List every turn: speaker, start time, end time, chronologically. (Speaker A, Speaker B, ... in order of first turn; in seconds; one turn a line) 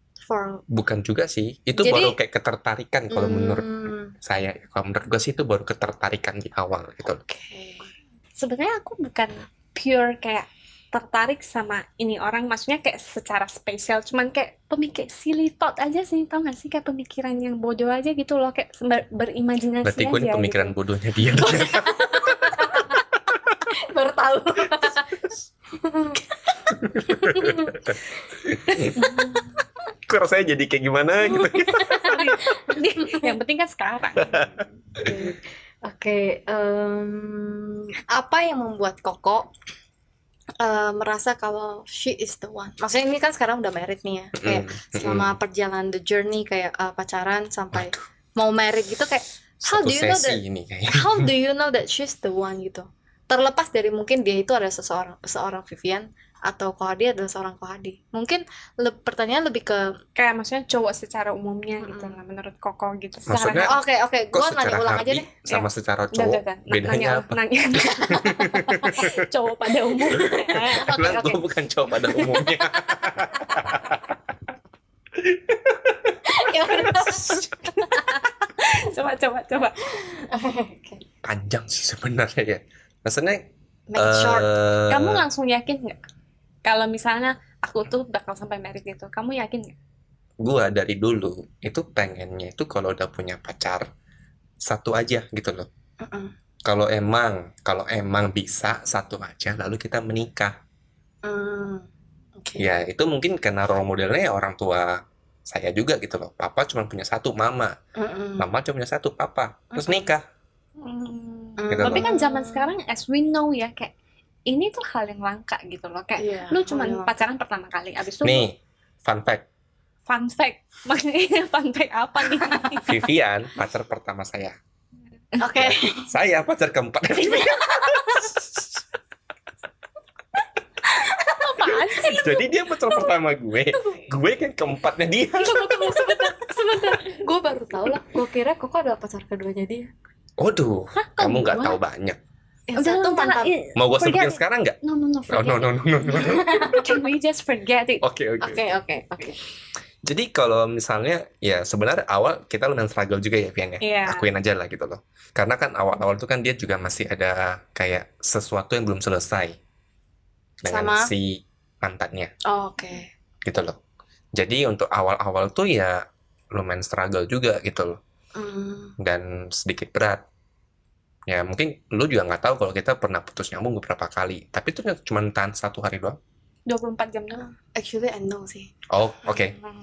Speaker A: 0.2-0.6
Speaker B: 0.7-3.7
Speaker A: 1.8-2.1
Speaker A: 3.1-4.1
Speaker B: 4.2-7.2
Speaker A: 7.2-7.9
Speaker C: 8.4-20.7
Speaker B: 19.8-22.6
Speaker A: 21.4-23.0
Speaker A: 23.7-25.2
Speaker A: 25.8-27.8
Speaker B: 26.7-29.0
Speaker A: 28.7-29.6
Speaker B: 30.1-32.1
Speaker A: 31.3-33.3
Speaker C: 31.8-34.5
Speaker B: 34.2-35.3
Speaker A: 35.0-39.5
Speaker A: 40.6-60.0
Speaker B: 44.4-45.3
Speaker B: 47.7-48.0
Speaker B: 49.6-51.3
Speaker C: 60.1-63.7
Speaker A: 61.8-62.2
Speaker B: 63.3-63.8
Speaker A: 63.5-65.3
Speaker B: 64.3-69.2
Speaker C: 65.5-71.3
Speaker B: 70.1-74.1
Speaker A: 70.5-71.4
Speaker A: 72.0-73.6
Speaker B: 75.2-77.4
Speaker A: 76.2-78.0
Speaker C: 77.6-80.0
Speaker A: 80.0-81.0
Speaker B: 81.2-85.2
Speaker A: 83.9-84.5
Speaker C: 84.9-86.0
Speaker C: 86.6-89.7
Speaker B: 90.4-93.8
Speaker B: 94.6-95.7
Speaker A: 96.0-96.3
Speaker B: 96.7-100.6
Speaker A: 101.2-101.8
Speaker A: 102.4-102.7
Speaker B: 102.6-107.7
Speaker A: 108.0-108.5
Speaker B: 108.4-110.2
Speaker A: 109.7-110.1
Speaker C: 110.8-113.9
Speaker A: 111.6-112.7
Speaker B: 111.7-112.1
Speaker C: 114.5-118.5
Speaker A: 116.2-117.2
Speaker B: 118.2-119.5
Speaker C: 120.1-123.0
Speaker B: 122.8-124.5
Speaker A: 125.4-126.1
Speaker B: 125.5-128.5
Speaker C: 130.9-132.5
Speaker B: 131.9-135.9
Speaker A: 135.4-139.9
Speaker B: 140.4-142.2
Speaker C: 140.9-141.8
Speaker A: 142.7-143.6
Speaker C: 142.8-148.0
Speaker B: 143.8-144.8
Speaker B: 145.3-146.8
Speaker A: 146.1-146.9
Speaker B: 148.0-148.7
Speaker A: 148.4-149.4
Speaker B: 150.0-159.6
Speaker C: 153.8-154.2
Speaker B: 160.6-162.3
Speaker A: 160.6-161.1
Speaker A: 162.4-163.1
Speaker B: 163.4-163.8
Speaker B: 164.3-168.0
Speaker A: 168.3-168.9
Speaker B: 169.0-170.2
Speaker B: 171.3-176.2
Speaker C: 176.7-177.5
Speaker A: 177.7-178.7
Speaker B: 178.9-179.6